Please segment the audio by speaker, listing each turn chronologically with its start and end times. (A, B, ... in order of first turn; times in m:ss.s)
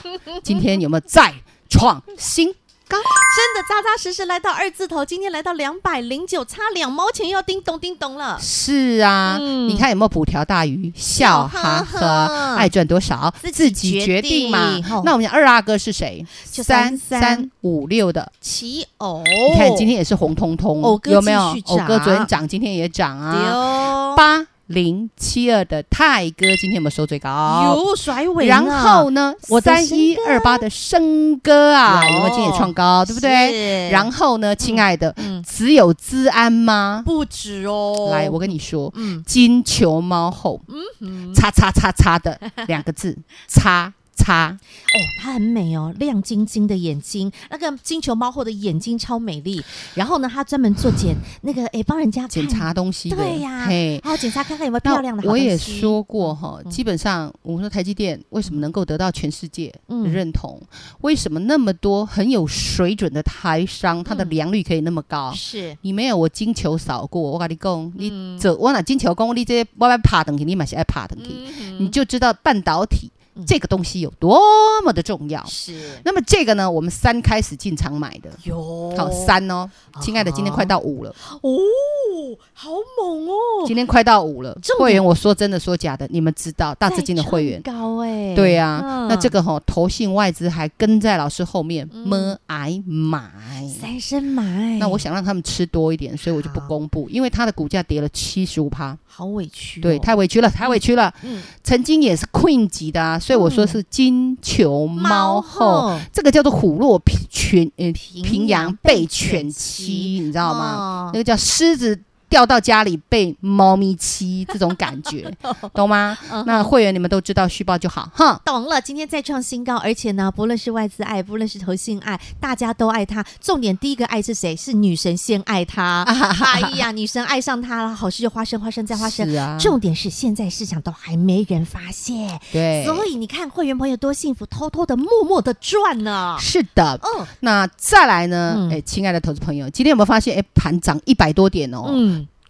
0:00.1-0:00.6 A
0:00.4-0:03.1 B
0:03.0-0:08.4 A
0:08.4-0:18.3 B
0:09.3-0:09.8 A
0:11.2-0:12.7 A
0:13.4-0:15.1 A
0:16.4-0:17.5 A
0:18.4-0:19.9 A
0:19.5-0:27.8 B
0:20.8-0:22.3 A
0:23.3-0:24.2 A
0:27.5-0:30.6 A
0:28.4-0:37.1 B
0:31.9-0:35.5 A
0:37.0-0:39.2 A
0:38.0-0:40.6 B
0:40.7-0:41.4 A
0:41.3-0:44.6 B
0:44.9-0:56.8 A
0:52.3-0:54.1 B
0:54.8-1:18.4 B
0:59.9-1:00.2 A
1:04.1-1:04.4 A
1:05.3-1:05.8 A
1:08.0-1:08.5 A
1:11.2-1:12.0 A
1:15.5-1:16.0 A
1:18.4-1:19.3 A
1:18.9-1:21.2 B
1:19.9-1:23.7 A
1:23.6-1:27.7 B
1:24.6-1:25.0 A
1:26.9-1:29.3 A
1:28.3-1:33.8 B
1:31.9-1:32.4 A
1:33.7-1:35.0 A
1:34.8-1:39.0 B
1:36.3-1:36.7 A
1:39.1-1:40.1 A
1:39.8-1:58.4 B
1:40.6-1:41.5 A
1:43.3-1:43.8 A
1:45.0-1:46.1 A
1:48.0-1:51.2 A
1:55.4-1:56.7 A
1:58.4-2:16.5 A
2:06.0-2:06.8 B
2:09.0-2:09.8 B
2:12.5-2:13.1 B
2:16.4-2:22.0 B
2:17.0-2:17.3 A
2:18.5-2:18.8 A
2:21.8-2:22.3 A